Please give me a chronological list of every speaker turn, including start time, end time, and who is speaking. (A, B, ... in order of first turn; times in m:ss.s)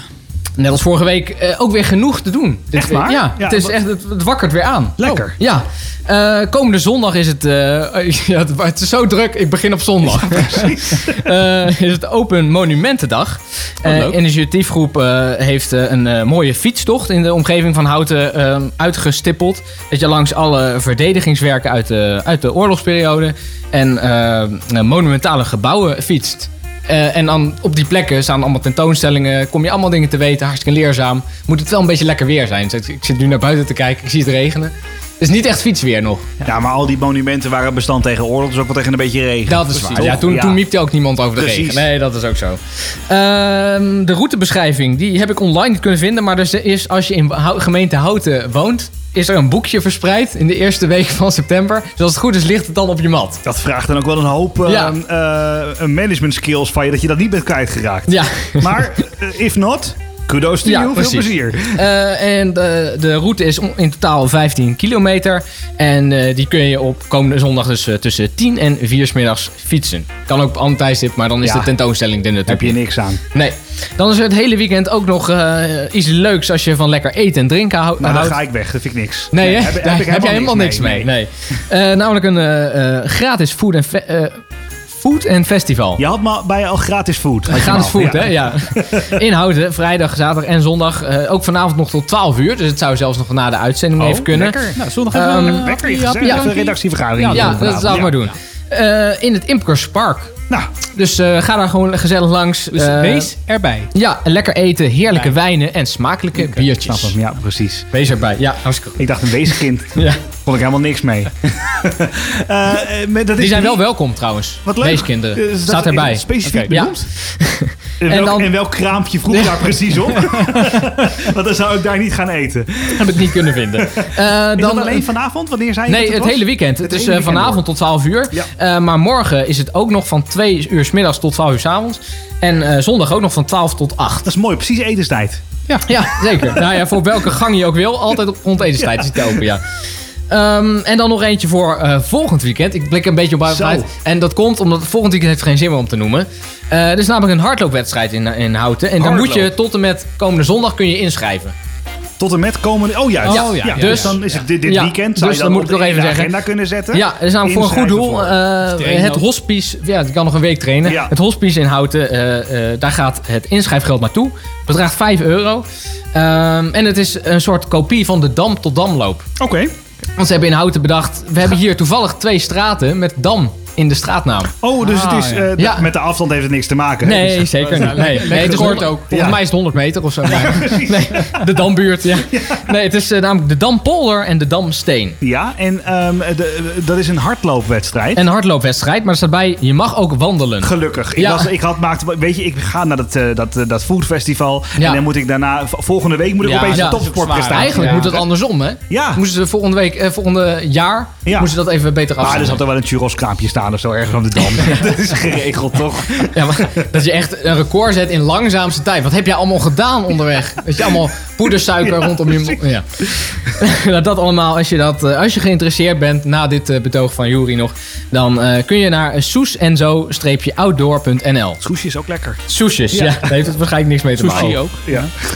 0:00.6-0:36.4 A
0:02.7-0:03.7 B
0:05.0-0:05.3 B
0:10.3-0:11.0 B
0:36.4-0:40.6 B
0:39.5-0:42.6 A
0:41.3-0:41.8 B
0:43.1-0:53.4 A
0:53.4-1:01.8 B
0:54.6-0:54.9 A
0:58.1-0:58.7 A
1:00.6-1:12.8 A
1:11.4-1:11.7 B
1:12.5-1:13.2 B
1:13.3-1:18.4 A
1:18.0-1:21.1 B
1:19.3-1:24.4 A
1:25.0-1:26.0 A
1:26.0-1:29.1 B
1:27.5-1:34.6 A
1:34.0-1:38.1 B
1:34.8-1:38.1 C
1:35.1-1:36.5 A
1:37.2-1:40.3 A
1:40.9-1:43.3 A
1:42.7-1:43.9 C
1:43.9-1:47.2 A
1:46.8-1:47.8 B
1:47.9-1:50.2 A
1:49.0-1:49.9 B
1:50.4-1:53.8 B
1:53.4-1:58.5 A
1:54.6-1:57.0 B
1:56.4-1:56.8 C
1:58.0-2:03.2 B
1:59.3-2:00.2 A
2:02.9-2:05.1 A
2:04.6-2:07.6 B
2:05.9-2:14.3 A
2:14.2-2:15.6 B
2:15.8-2:19.6 A
2:20.3-2:31.5 A
2:23.5-2:23.9 B
2:29.0-2:29.5 B
2:32.2-2:38.4 B
2:33.2-2:34.2 C
2:33.2-2:36.3 A
2:36.9-2:49.2 A
2:38.6-2:39.2 C
2:40.8-2:41.1 B
2:49.4-2:49.7 B
2:50.2-2:54.5 A
2:54.6-2:57.5 B
2:54.8-2:55.5 C
2:55.6-2:55.9 A
2:57.0-3:05.2 A
2:57.5-2:59.3 C
2:58.2-2:59.4 B
3:00.2-3:01.4 B
3:02.3-3:02.6 B
3:05.2-3:08.2 B
3:08.2-3:11.5 A
3:10.6-3:18.3 B
3:14.8-3:15.0 A
3:16.4-3:18.2 C
3:16.7-3:22.6 A
3:18.9-3:19.2 B
3:22.2-3:26.6 B
3:26.2-3:41.6 A
3:32.0-3:32.6 B
3:41.6-3:42.4 B
3:42.5-3:44.6 A
3:42.9-3:43.3 B
3:44.2-3:45.0 C
3:44.3-3:45.1 B